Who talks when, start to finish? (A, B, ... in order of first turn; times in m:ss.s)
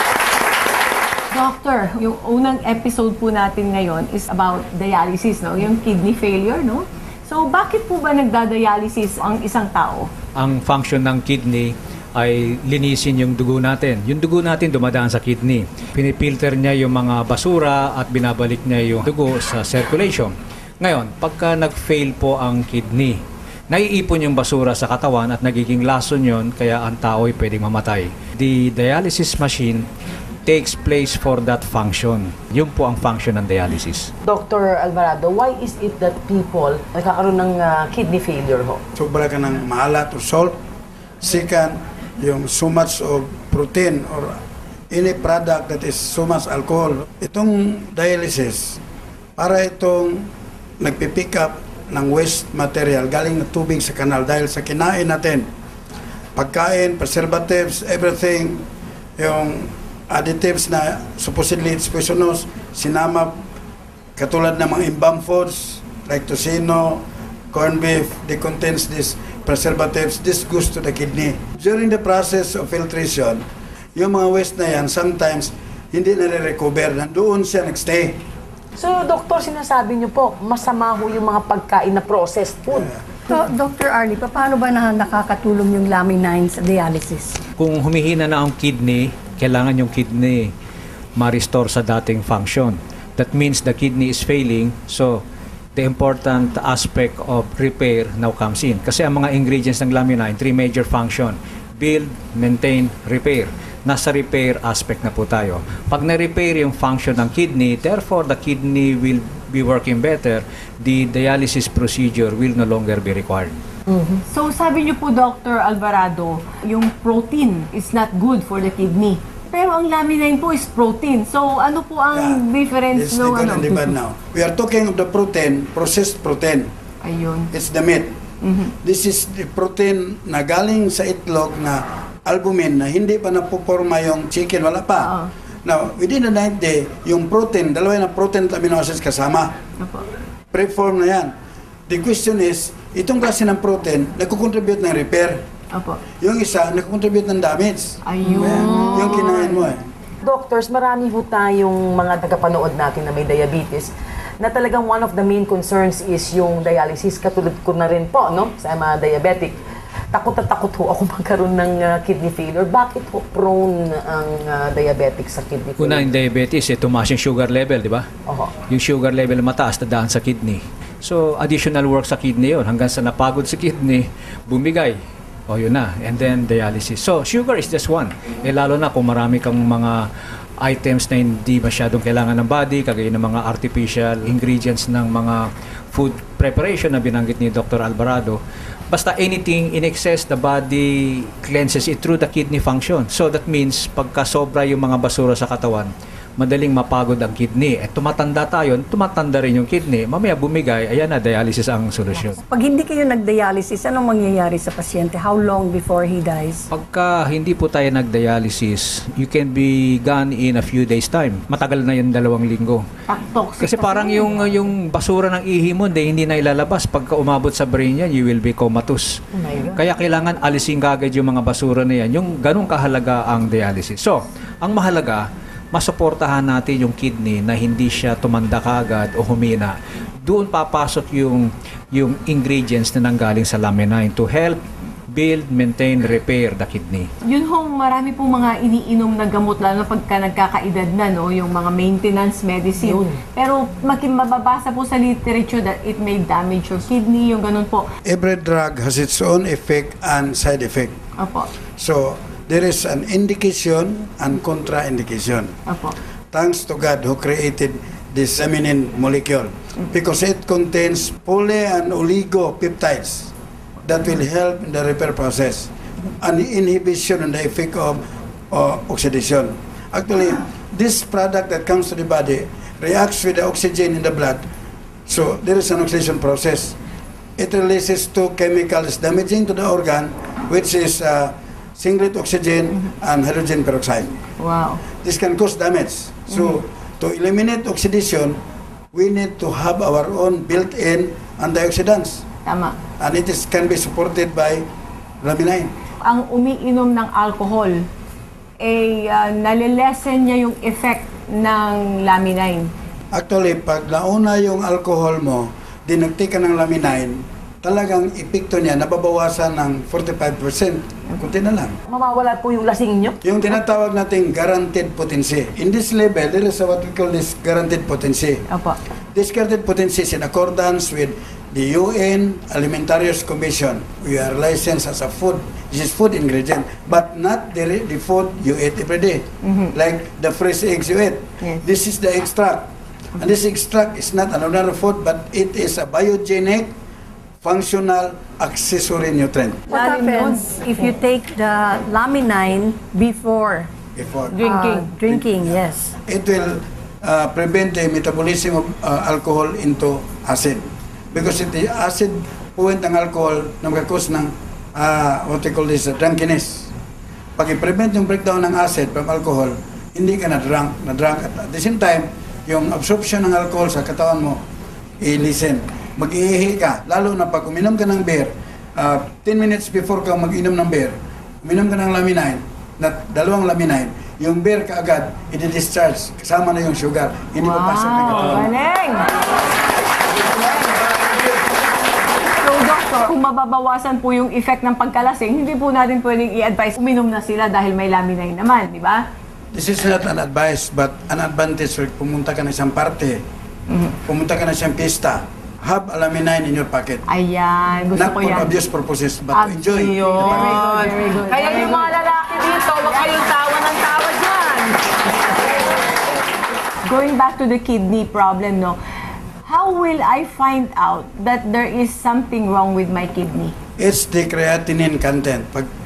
0:01.3-0:10.1 A
0:10.4-0:23.2 B
0:23.7-0:29.9 B
0:30.5-0:34.1 B
0:34.2-0:38.8 C
0:39.0-0:40.6 D
0:41.2-0:48.8 D
0:49.4-0:55.5 D
0:56.4-0:58.7 D
0:59.2-1:03.4 D
1:04.2-1:13.4 D
1:14.0-1:18.2 D
1:18.8-1:22.9 C
1:23.3-1:27.4 E
1:27.6-1:30.5 B
1:31.2-1:35.2 B
1:35.8-1:53.6 B
1:53.9-1:54.2 C
1:54.3-2:03.9 A
2:02.1-2:06.7 D
2:07.0-2:07.5 A
2:07.5-2:08.2 D
2:08.4-2:08.7 A
2:08.8-2:15.1 D
2:15.0-2:15.3 A
2:15.6-2:19.6 D
2:19.8-2:20.0 A
2:20.5-2:21.3 D
2:21.9-2:25.4 D
2:25.7-2:26.0 A
2:26.2-2:29.8 D
2:28.0-2:29.6 A
2:28.3-2:29.3 C
2:30.2-2:39.6 C
2:40.1-2:46.1 C
2:45.8-2:48.1 B
2:48.3-2:48.5 C
2:48.7-2:55.0 B
2:55.5-3:00.1 B
3:00.6-3:08.4 B
3:08.9-3:22.4 B
3:22.4-3:26.7 E
3:26.7-3:32.8 B
3:33.1-3:34.4 A
3:33.6-3:39.2 B
3:39.3-3:39.8 C
3:39.8-3:49.8 B
3:50.3-3:54.6 B
3:55.1-3:57.1 B
3:57.3-4:07.9 A
4:02.8-4:03.2 C
4:08.1-4:11.0 D
4:11.2-4:11.5 A
4:11.8-4:15.6 D
4:15.7-4:16.0 A
4:16.3-4:23.3 D
4:23.8-4:25.7 D
4:26.2-4:34.5 D
4:35.1-4:36.8 D
4:37.4-4:44.2 D
4:44.4-4:44.8 A
4:45.0-4:48.4 D
4:46.3-4:46.6 A
4:48.9-4:52.2 D
4:52.5-4:52.8 A
4:53.0-4:54.7 D
4:55.2-4:55.7 D
4:56.0-4:57.9 A
4:58.6-5:02.7 A
5:03.1-5:11.8 D
5:11.9-5:13.2 C
5:13.2-5:18.4 D
5:18.5-5:18.8 A
5:19.1-5:32.7 D
5:29.4-5:29.7 A
5:33.2-5:36.7 D
5:37.4-5:39.7 D
5:39.7-5:43.7 E
5:39.7-5:40.9 A
5:44.0-5:44.4 D
5:44.4-5:45.9 E
5:44.4-5:44.9 A
5:46.1-5:56.7 D
5:57.4-6:04.4 D
6:05.0-6:18.5 D
6:17.4-6:19.1 A
6:22.4-6:29.1 A
6:29.5-6:33.2 D
6:33.7-6:34.0 A
6:34.1-6:37.0 D
6:37.1-6:38.5 A
6:37.9-6:40.7 D
6:39.3-6:43.3 A
6:39.7-6:44.8 C
6:46.9-6:48.8 A
6:49.4-6:53.6 A
6:53.8-6:55.7 D